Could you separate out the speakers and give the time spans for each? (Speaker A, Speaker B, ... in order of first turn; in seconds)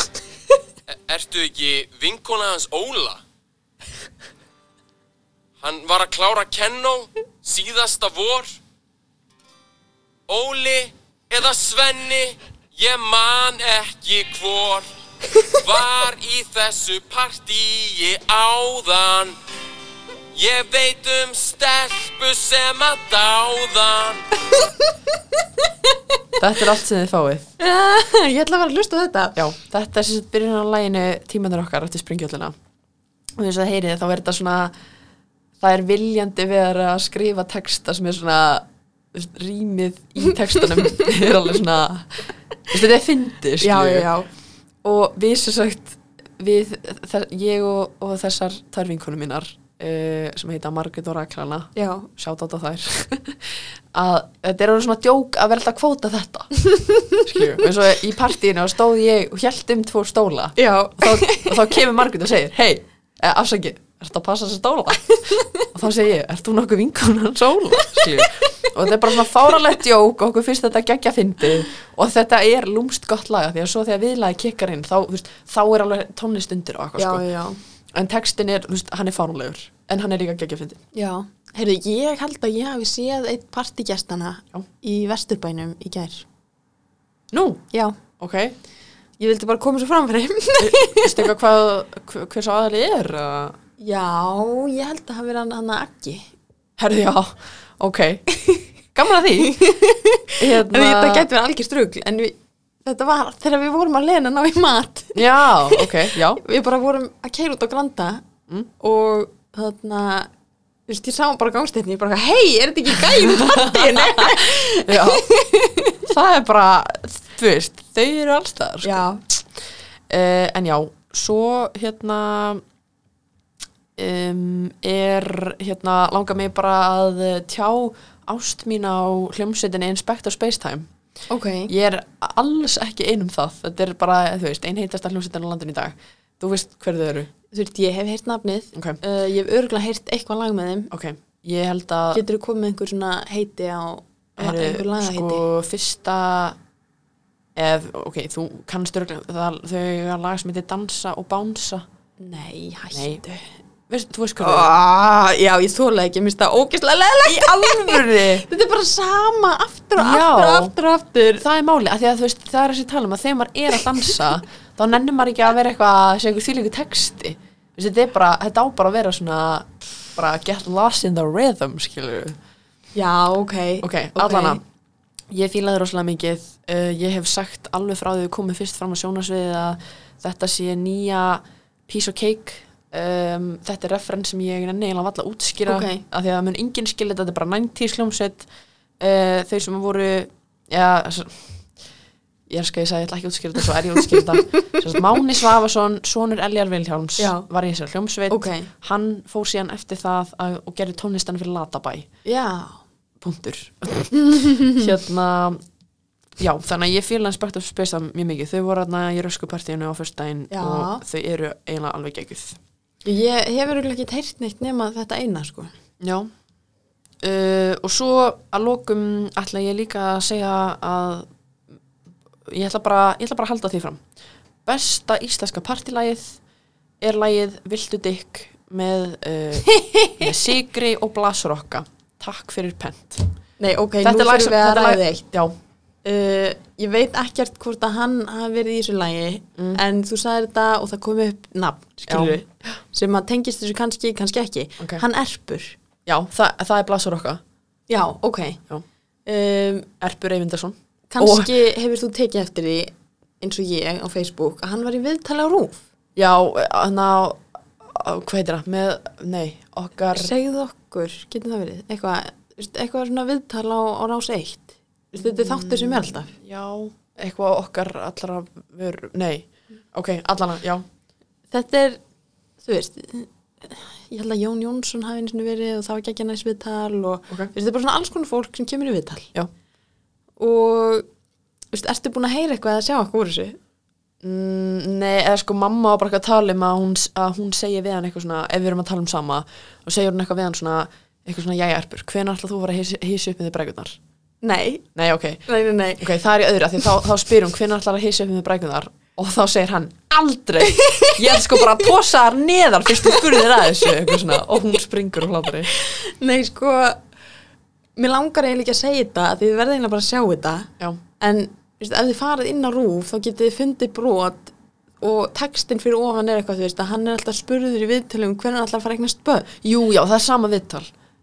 Speaker A: 0.9-3.2, 5.6-8.6, 10.3-14.9, 15.4-19.4, 20.3-24.2
Speaker B: 24.5-26.3, 27.6-29.4, 43.6-44.3, 51.8-52.1, 56.6-57.2, 60.6-61.6, 65.2-65.7, 67.9-68.2, 77.0-77.6, 80.9-86.3, 87.7-88.0, 89.2-91.3, 93.8-96.3, 99.4-108.3, 108.8-110.3, 110.9-116.1, 118.8-119.2, 131.3-131.7, 137.5-140.9, 142.1-145.4, 152.2-153.5, 154.4-161.4, 172.9-174.6, 185.7-186.0, 197.2-197.5, 198.3-198.7, 202.2-202.8, 204.2-204.8, 210.5-211.0, 213.1-215.7, 229.7-230.3, 233.6-235.3, 236.0-245.8, 247.9-248.6, 249.3-249.9, 251.1-255.8, 260.1-266.3, 271.5-272.0, 272.6-279.3, 280.4-281.1, 281.7-283.6, 294.4-294.9, 295.5-296.2, 300.6-301.9, 303.1-303.9, 305.7-307.0, 308.0-319.5
Speaker C: 26.4-27.5, 29.4-32.6, 33.4-34.7, 35.6-44.1, 44.8-56.5, 57.2-77.2, 77.9-80.8, 87.3-87.6, 88.2-88.6, 90.6-93.6, 96.8-98.3, 98.8-99.6, 100.4-101.3, 105.2-106.4, 113.1-115.3, 116.0-119.4, 120.1-122.6, 124.0-130.9, 131.7-137.3, 140.9-142.2, 144.4-146.6, 147.6-151.8, 152.9-153.2, 153.9-154.8, 157.2-158.5, 160.0-160.7, 161.4-172.4, 173.8-174.6, 175.3-188.5, 189.0-191.7, 192.5-202.1, 203.2-205.6, 206.4-212.6, 216.0-216.3, 217.2-221.3, 222.4-224.0, 224.7-226.4, 227.0-233.3, 234.0-235.5, 242.1-242.8, 246.1-247.4, 250.0-251.5, 256.2-260.3, 265.2-270.9, 284.2-294.0, 294.9-295.5, 296.0-305.7, 319.6-320.9